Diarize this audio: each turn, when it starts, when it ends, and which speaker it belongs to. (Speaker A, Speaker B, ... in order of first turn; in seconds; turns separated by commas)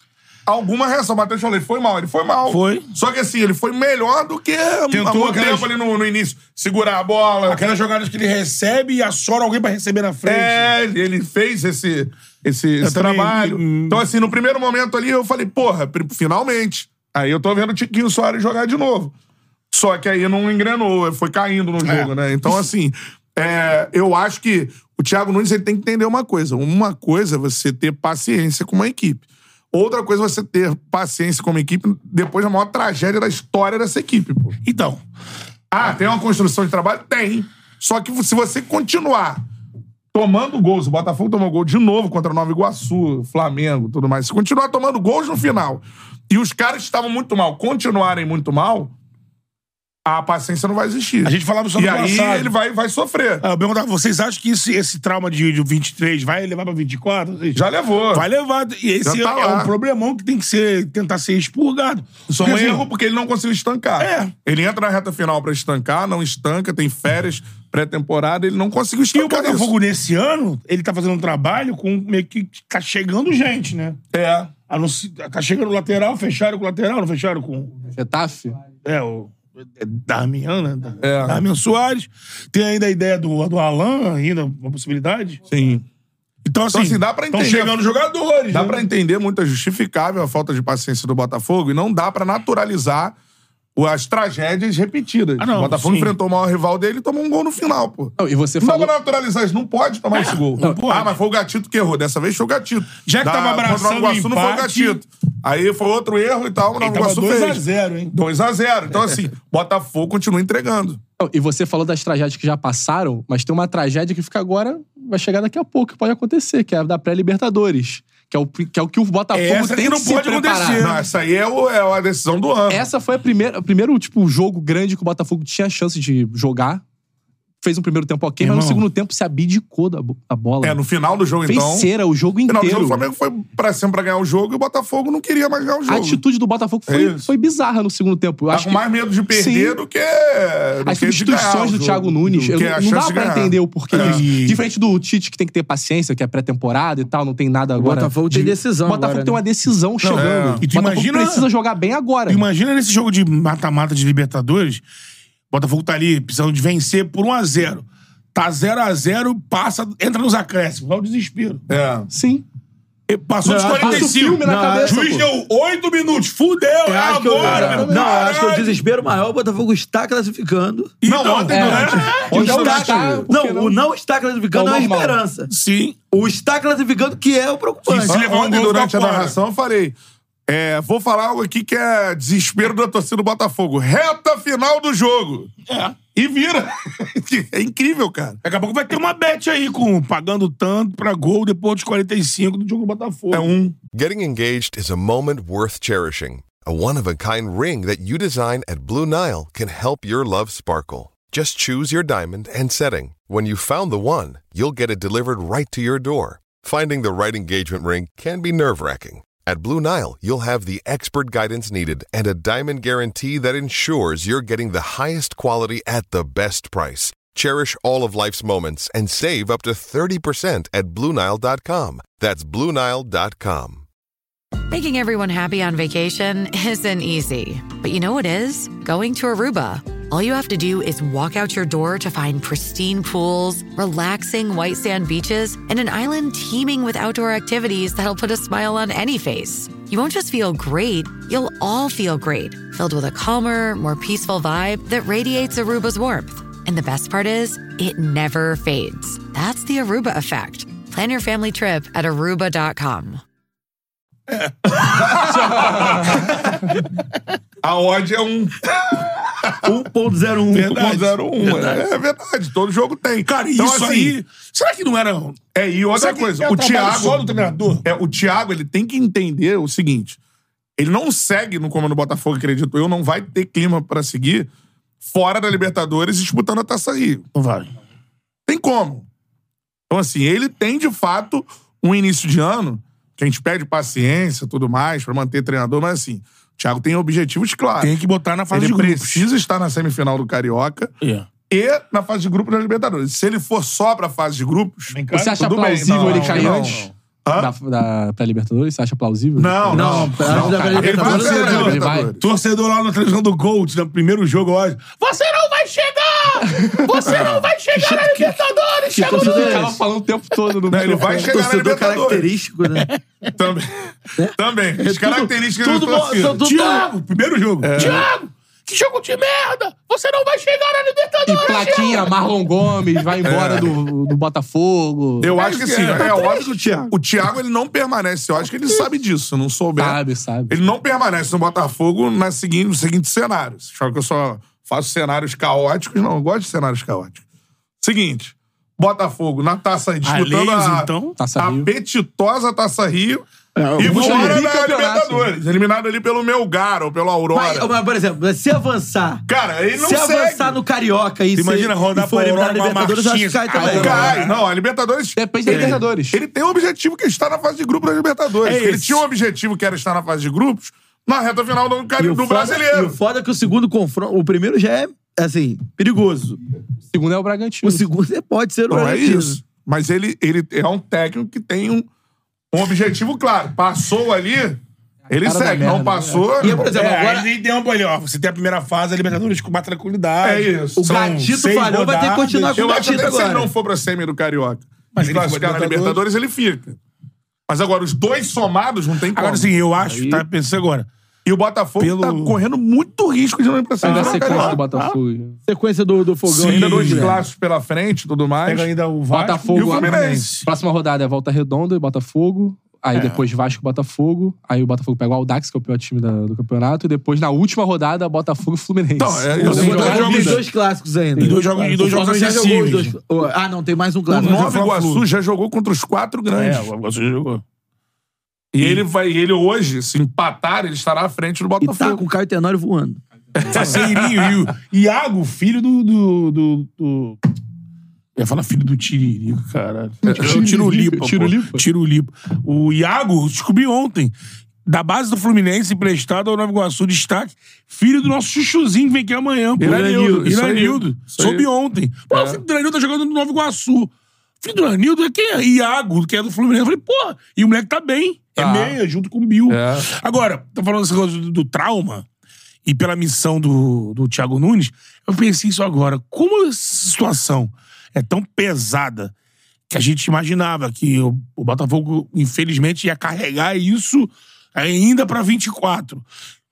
Speaker A: 0.5-7.6, Speaker B: 2.5-2.9, Speaker B: 4.9-5.7, Speaker B: 7.5-10.7, Speaker A: 10.2-19.1, Speaker B: 12.8-14.0, Speaker A: 19.7-34.6, Speaker B: 21.8-22.1, Speaker B: 34.6-35.0, Speaker A: 35.7-39.4, Speaker A: 40.1-48.9, Speaker A: 50.0-53.4, Speaker B: 51.2-52.5, Speaker B: 53.4-57.6, Speaker A: 57.5-58.2, Speaker B: 58.1-62.8, Speaker A: 59.0-59.7, Speaker A: 62.3-69.7, Speaker B: 64.0-64.3, Speaker B: 69.1-74.0, Speaker A: 74.1-74.5, Speaker B: 74.7-77.8, Speaker C: 77.9-78.6, Speaker B: 78.8-85.4, Speaker A: 81.0-81.4, Speaker A: 85.5-85.8, Speaker B: 86.4-88.8, Speaker A: 86.7-87.8, Speaker A: 88.5-93.2, Speaker A: 93.8-111.0, Speaker B: 95.4-96.1, Speaker C: 98.2-98.9, Speaker B: 100.1-101.1, Speaker B: 103.0-105.0, Speaker B: 106.8-108.1, Speaker C: 111.2-120.8, Speaker B: 119.3-121.0, Speaker A: 120.8-122.8, Speaker C: 122.7-126.8, Speaker C: 127.6-130.8, Speaker B: 128.4-128.8, Speaker A: 130.6-131.9, Speaker C: 131.4-133.0, Speaker A: 132.5-136.2, Speaker C: 135.9-139.8, Speaker A: 136.9-137.3, Speaker A: 138.5-144.2, Speaker C: 140.8-152.4, Speaker B: 143.9-144.6, Speaker D: 147.8-149.4, Speaker B: 150.0-151.5, Speaker A: 150.1-150.6, Speaker B: 152.3-154.8, Speaker B: 155.5-161.6, Speaker A: 161.7-162.1, Speaker C: 162.1-162.4, Speaker B: 163.1-168.8, Speaker A: 163.4-164.1, Speaker D: 163.4-165.1, Speaker C: 163.8-165.3, Speaker D: 166.8-170.9, Speaker A: 167.4-168.5, Speaker C: 167.5-168.0, Speaker B: 171.0-172.3, Speaker A: 171.0-173.3, Speaker C: 171.5-173.8, Speaker D: 172.3-175.5, Speaker C: 174.5-175.2, Speaker B: 175.5-175.9, Speaker D: 176.1-178.2, Speaker B: 177.8-179.3, Speaker A: 178.0-185.5, Speaker B: 185.7-185.9, Speaker A: 186.1-188.4, Speaker B: 188.4-193.5, Speaker A: 193.3-193.8, Speaker E: 193.9-223.8, Speaker F: 224.7-253.2, Speaker B: 254.3-256.2, Speaker A: 254.7-256.7, Speaker C: 255.2-256.5, Speaker A: 257.6-259.8, Speaker D: 259.5-261.1, Speaker B: 260.5-261.8, Speaker A: 260.6-264.1, Speaker B: 263.2-265.4, Speaker A: 265.5-267.2, Speaker B: 265.9-267.8, Speaker A: 267.8-270.2, Speaker A: 270.8-274.5, Speaker A: 275.0-277.2, Speaker B: 277.3-277.7, Speaker A: 278.5-279.1, Speaker A: 279.9-288.0, Speaker B: 287.8-289.2, Speaker A: 288.5-290.9, Speaker B: 291.0-291.3, Speaker A: 291.5-297.5, Speaker B: 294.9-296.9, Speaker C: 295.1-296.8, Speaker C: 297.4-302.1, Speaker A: 299.4-302.3, Speaker D: 299.7-301.8, Speaker B: 300.3-300.9, Speaker B: 302.2-309.8, Speaker C: 306.4-307.2, Speaker A: 307.0-307.5, Speaker C: 308.9-311.3, Speaker D: 309.0-309.8, Speaker A: 310.7-312.3, Speaker D: 311.2-312.9, Speaker B: 312.7-313.3, Speaker A: 313.4-316.4, Speaker D: 314.2-316.9, Speaker B: 316.4-322.2, Speaker A: 317.6-318.1, Speaker C: 321.3-325.4, Speaker A: 323.2-323.7, Speaker A: 325.2-337.2, Speaker B: 325.4-326.2, Speaker D: 325.9-326.9, Speaker C: 329.8-330.6, Speaker A: 337.8-343.2, Speaker B: 340.0-341.1, Speaker C: 341.2-341.7, Speaker D: 343.6-344.4, Speaker A: 343.7-347.7, Speaker C: 343.8-345.3, Speaker D: 347.3-349.2, Speaker A: 349.3-350.6, Speaker D: 349.8-354.2, Speaker B: 351.3-354.4, Speaker C: 353.5-354.2, Speaker A: 353.7-362.9, Speaker C: 355.1-356.2, Speaker D: 355.5-355.8, Speaker B: 358.4-359.0, Speaker D: 362.0-366.4, Speaker C: 366.9-367.9, Speaker D: 367.6-369.4, Speaker A: 368.7-371.9, Speaker A: 372.5-376.7, Speaker C: 375.1-376.5, Speaker D: 376.4-377.3, Speaker B: 376.6-382.6, Speaker A: 380.2-380.8, Speaker D: 380.8-383.5, Speaker A: 382.5-386.8, Speaker B: 384.9-386.0, Speaker A: 387.5-389.5, Speaker B: 389.1-390.9, Speaker A: 391.2-394.6, Speaker B: 391.8-392.4, Speaker C: 393.8-395.4, Speaker D: 393.9-394.2, Speaker B: 393.9-394.9, Speaker D: 395.5-397.2, Speaker B: 396.3-397.1, Speaker A: 396.4-398.7, Speaker B: 398.4-400.5, Speaker C: 399.1-410.4, Speaker A: 399.5-400.3, Speaker B: 402.9-403.2, Speaker A: 409.0-410.4, Speaker B: 409.4-410.4, Speaker D: 409.4-414.5, Speaker B: 411.2-413.0, Speaker B: 414.1-415.0, Speaker A: 414.1-416.7, Speaker B: 416.3-417.4, Speaker A: 418.5-422.0, Speaker D: 421.6-423.8, Speaker A: 423.4-424.3, Speaker B: 423.4-427.2, Speaker B: 428.1-434.1, Speaker A: 430.1-430.4, Speaker C: 430.1-431.6, Speaker B: 434.6-452.1, Speaker A: 439.6-441.5, Speaker D: 439.6-439.9, Speaker A: 442.1-442.4, Speaker A: 448.4-448.8, Speaker A: 449.5-449.9, Speaker B: 452.6-459.1, Speaker B: 459.7-466.0